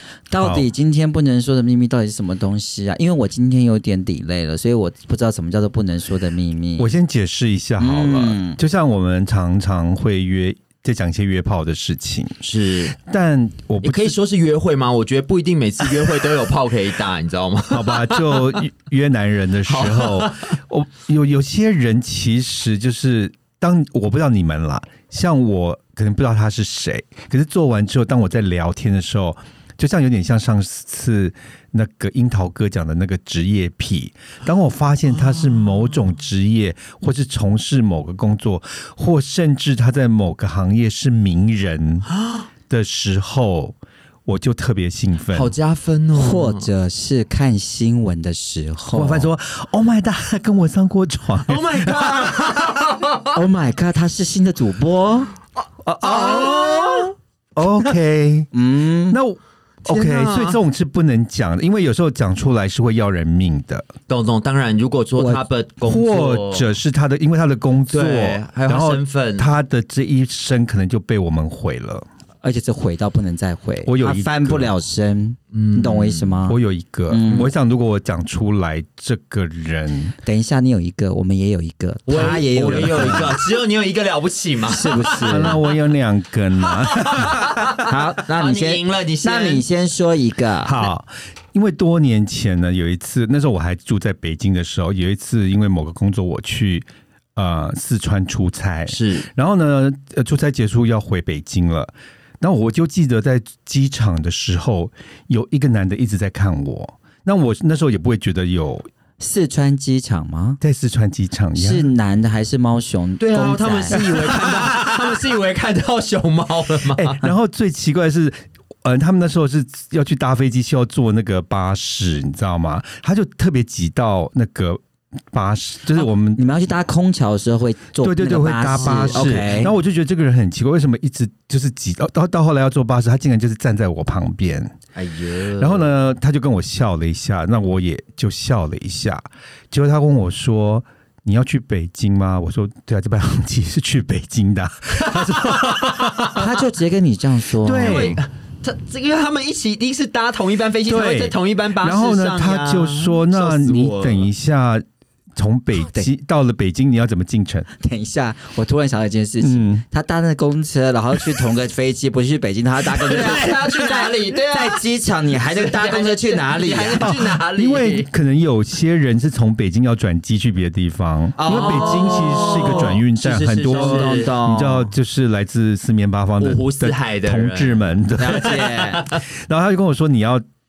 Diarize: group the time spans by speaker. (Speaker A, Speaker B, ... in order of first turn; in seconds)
Speaker A: 0.3-6.9, 7.8-8.6, 46.1-49.3, 53.3-55.3, 58.5-59.2, 72.4-77.5, 80.2-83.4, 84.7-85.6, 87.8-90.8, 109.2-110.6, 111.6-114.0, 126.4-129.7, 146.4-148.2, 155.8-156.1, 157.8-163.8, 164.5-167.1, 171.4-173.0, 173.6-174.9, 178.2-179.1
Speaker B: 0.4-0.7, 6.8-12.4, 13.0-14.2, 17.7-42.1, 42.7-45.5, 48.9-52.5, 55.8-58.5, 59.1-63.9, 65.8-72.0, 73.8-74.7, 76.5-80.1, 82.7-83.3, 85.2-87.8, 90.6-108.9, 110.6-111.9, 114.0-114.8, 117.0-126.4, 128.0-134.8, 135.6-146.5, 147.6-148.2, 150.8-154.8, 155.3-157.7, 159.4-159.8, 167.0-180.4
Speaker C: 12.4-12.9, 13.8-18.6, 19.7-20.6, 42.1-42.5, 45.3-46.7, 51.5-53.4, 56.0-57.1, 59.9-60.6, 64.1-66.7, 67.9-69.5, 75.5-76.4, 82.1-85.7, 86.7-89.7, 98.9-99.3, 113.2-117.3, 128.7-129.4, 134.9-135.9, 145.0-146.4, 147.7-154.3, 163.0-164.8, 165.3-168.1, 171.4-174.3, 176.4-179.2